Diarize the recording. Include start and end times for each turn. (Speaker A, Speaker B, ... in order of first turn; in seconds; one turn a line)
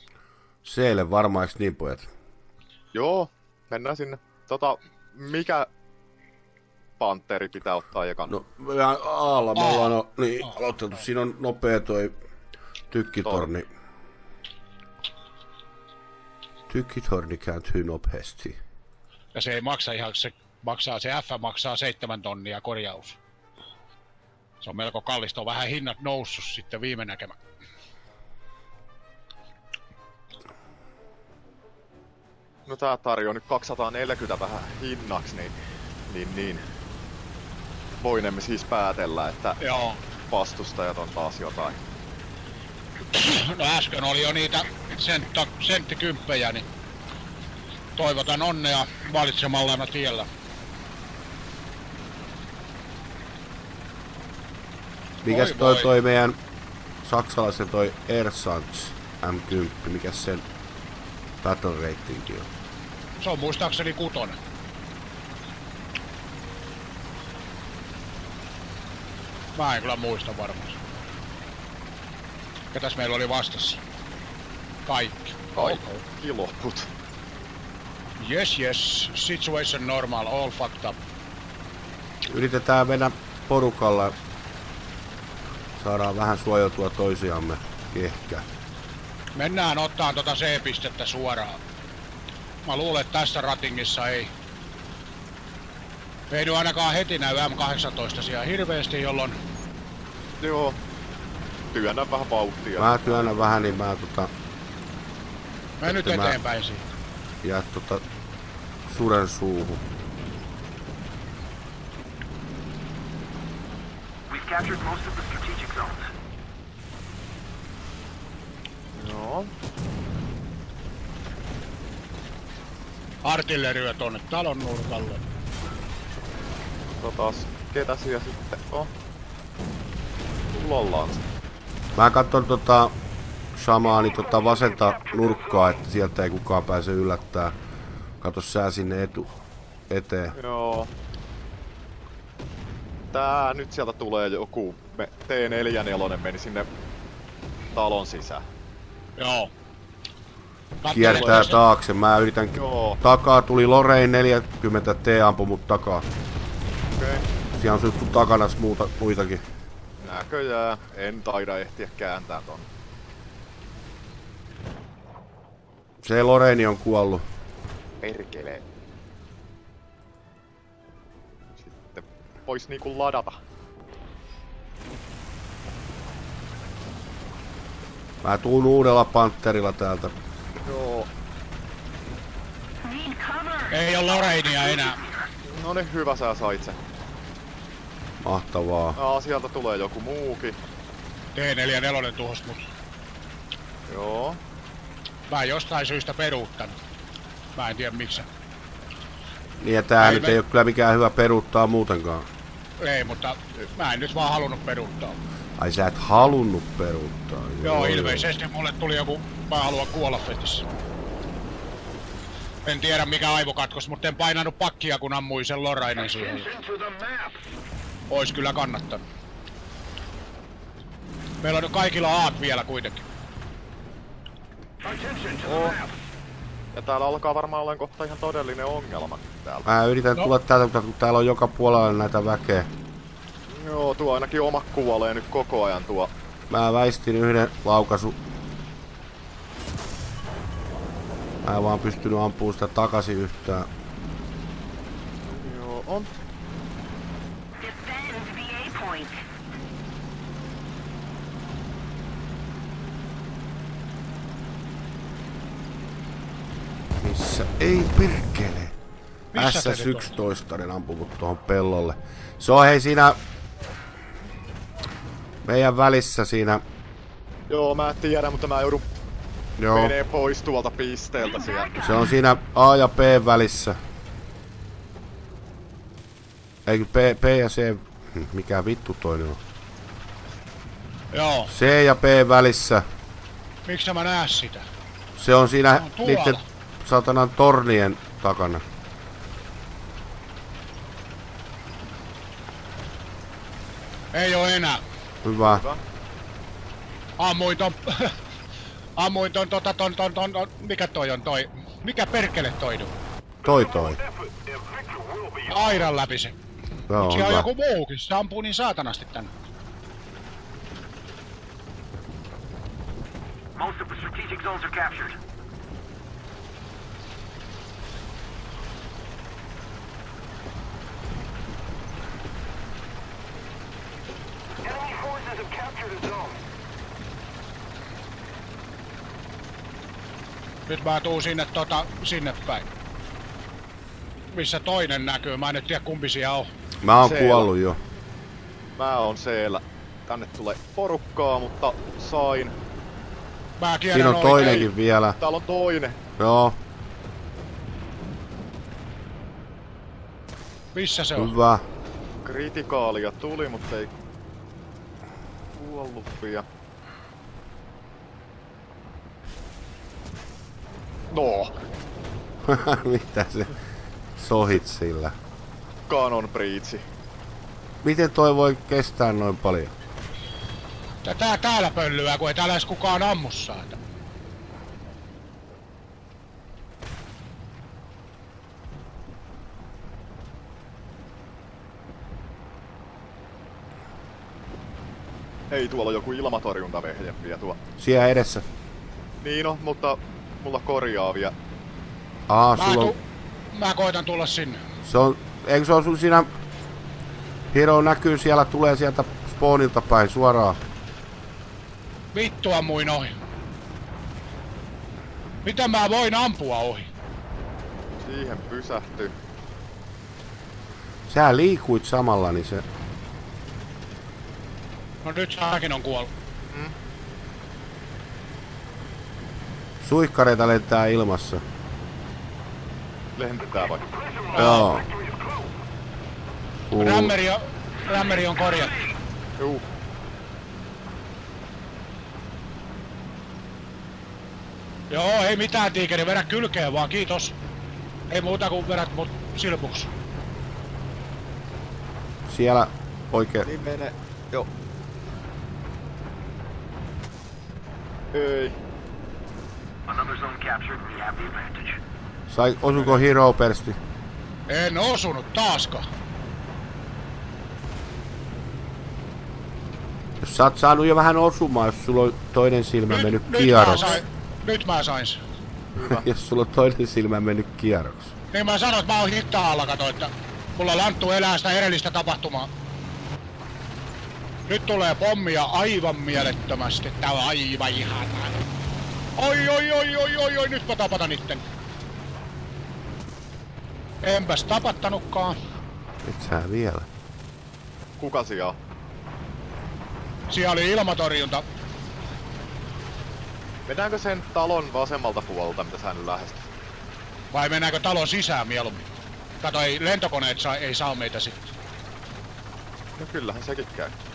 Speaker A: 0.6-2.1
Speaker B: 2.9-5.7
Speaker B: 7.0-8.3
Speaker A: 8.3-12.2
Speaker C: 9.6-9.9
Speaker A: 12.9-13.7
Speaker A: 16.7-18.6
Speaker C: 19.3-23.2
Speaker C: 24.6-27.4
Speaker B: 32.7-35.5
Speaker B: 36.1-36.6
Speaker B: 38.0-39.6
Speaker C: 39.6-40.0
Speaker B: 40.3-41.8
Speaker C: 43.1-46.7
Speaker C: 48.0-50.3
Speaker A: 55.2-56.4
Speaker C: 55.2-55.9
Speaker A: 57.0-60.5
Speaker A: 61.4-62.5
Speaker C: 63.2-64.4
Speaker C: 69.5-70.8
Speaker C: 72.7-73.8
Speaker C: 74.9-76.0
Speaker B: 75.6-76.9
Speaker C: 78.2-81.0
Speaker A: 82.3-84.2
Speaker A: 85.8-88.5
Speaker C: 89.4-91.6
Speaker C: 92.7-94.3
Speaker C: 96.3-99.4
Speaker B: 100.4-100.8
Speaker B: 101.7-103.5
Speaker A: 102.8-104.3
Speaker C: 105.8-106.9
Speaker A: 105.8-106.4
Speaker A: 107.4-108.0
Speaker A: 108.9-109.8
Speaker D: 114.3-116.1
Speaker B: 118.9-119.5
Speaker C: 123.2-125.2
Speaker B: 127.0-128.9
Speaker B: 130.5-131.2
Speaker A: 131.9-132.9
Speaker A: 133.6-137.6
Speaker A: 138.2-139.3
Speaker A: 139.9-140.4
Speaker B: 140.3-140.9
Speaker B: 143.1-146.7
Speaker B: 147.7-148.4
Speaker C: 149.2-149.5
Speaker C: 150.8-151.6
Speaker A: 150.8-156.1
Speaker B: 151.1-151.4
Speaker B: 152.6-153.0
Speaker B: 156.9-157.3
Speaker A: 157.5-159.4
Speaker B: 160.0-162.7
Speaker A: 166.0-167.2
Speaker B: 168.0-168.7
Speaker B: 171.6-173.4
Speaker A: 178.2-180.2
Speaker B: 180.6-181.1
Speaker D: 182.8-185.2
Speaker C: 183.7-185.0
Speaker B: 185.5-186.8
Speaker A: 188.2-189.0
Speaker B: 188.9-190.6
Speaker C: 191.3-192.7
Speaker B: 193.9-194.4
Speaker C: 195.3-196.8
Speaker C: 197.6-198.3
Speaker A: 199.6-202.3
Speaker C: 200.0-200.4
Speaker C: 202.8-205.2
Speaker A: 205.6-208.3
Speaker C: 207.6-210.7
Speaker C: 212.7-216.5
Speaker D: 216.6-217.3
Speaker C: 218.1-219.0
Speaker C: 221.4-223.1
Speaker D: 224.8-225.8
Speaker B: 225.4-225.8
Speaker B: 226.7-229.7
Speaker A: 229.7-232.7
Speaker B: 233.5-236.1
Speaker A: 236.5-238.2
Speaker A: 241.4-243.7
Speaker B: 245.2-246.1
Speaker D: 247.6-249.2
Speaker A: 257.0-258.8
Speaker C: 259.3-260.1
Speaker A: 259.3-263.2
Speaker A: 265.4-266.6
Speaker B: 267.5-268.9
Speaker A: 269.6-269.9
Speaker B: 269.7-271.9
Speaker A: 271.8-273.8
Speaker A: 276.7-279.4
Speaker C: 281.1-281.5
Speaker A: 281.5-282.9
Speaker C: 283.7-284.7
Speaker A: 285.2-288.6
Speaker C: 285.7-286.4
Speaker C: 294.1-294.8
Speaker A: 295.2-295.6
Speaker B: 295.4-295.8
Speaker C: 297.2-298.2
Speaker C: 299.0-302.9
Speaker A: 303.4-304.0
Speaker C: 305.5-306.4
Speaker A: 306.9-307.5
Speaker C: 306.9-309.3
Speaker D: 313.6-315.2
Speaker D: 324.6-326.4
Speaker C: 330.7-332.7
Speaker C: 334.3-336.5
Speaker A: 336.8-337.8
Speaker B: 337.0-337.5
Speaker B: 338.8-342.6
Speaker C: 343.6-344.7
Speaker A: 343.9-345.2
Speaker B: 344.4-344.7
Speaker B: 345.2-346.0
Speaker A: 346.2-346.6
Speaker C: 350.7-351.3
Speaker A: 351.2-351.6
Speaker B: 352.2-353.9
Speaker B: 355.5-356.4
Speaker B: 361.1-361.6
Speaker A: 362.4-363.6
Speaker A: 364.2-365.1
Speaker B: 365.9-366.9
Speaker A: 367.8-369.8
Speaker C: 371.0-373.8
Speaker B: 385.5-387.6
Speaker A: 387.8-388.4
Speaker B: 389.2-391.3
Speaker A: 392.3-392.9
Speaker C: 392.6-393.0
Speaker C: 393.5-394.6
Speaker A: 394.8-396.3
Speaker A: 397.5-400.6
Speaker C: 402.1-403.1
Speaker C: 405.4-406.9
Speaker B: 408.0-409.1
Speaker A: 411.1-412.6
Speaker C: 415.0-416.1
Speaker B: 416.5-416.8
Speaker A: 419.8-421.4
Speaker B: 423.2-423.9
Speaker A: 424.3-424.9
Speaker C: 424.3-424.7
Speaker A: 426.7-427.1
Speaker C: 426.8-428.8
Speaker B: 429.4-429.6
Speaker C: 434.9-437.4
Speaker C: 438.1-439.9
Speaker A: 442.3-443.5
Speaker B: 443.4-444.5
Speaker B: 448.1-448.6
Speaker D: 449.9-451.8
Speaker A: 452.3-453.8
Speaker C: 454.5-455.9
Speaker A: 460.2-464.0
Speaker C: 462.9-465.2
Speaker B: 465.8-466.1
Speaker A: 465.8-468.1
Speaker C: 468.3-472.5
Speaker C: 474.5-478.4
Speaker C: 479.2-481.4
Speaker C: 484.0-485.4
Speaker A: 486.0-486.9
Speaker B: 488.0-488.6
Speaker C: 490.3-491.4
Speaker B: 493.7-496.5
Speaker C: 497.3-498.9
Speaker C: 499.4-501.5
Speaker B: 502.9-503.9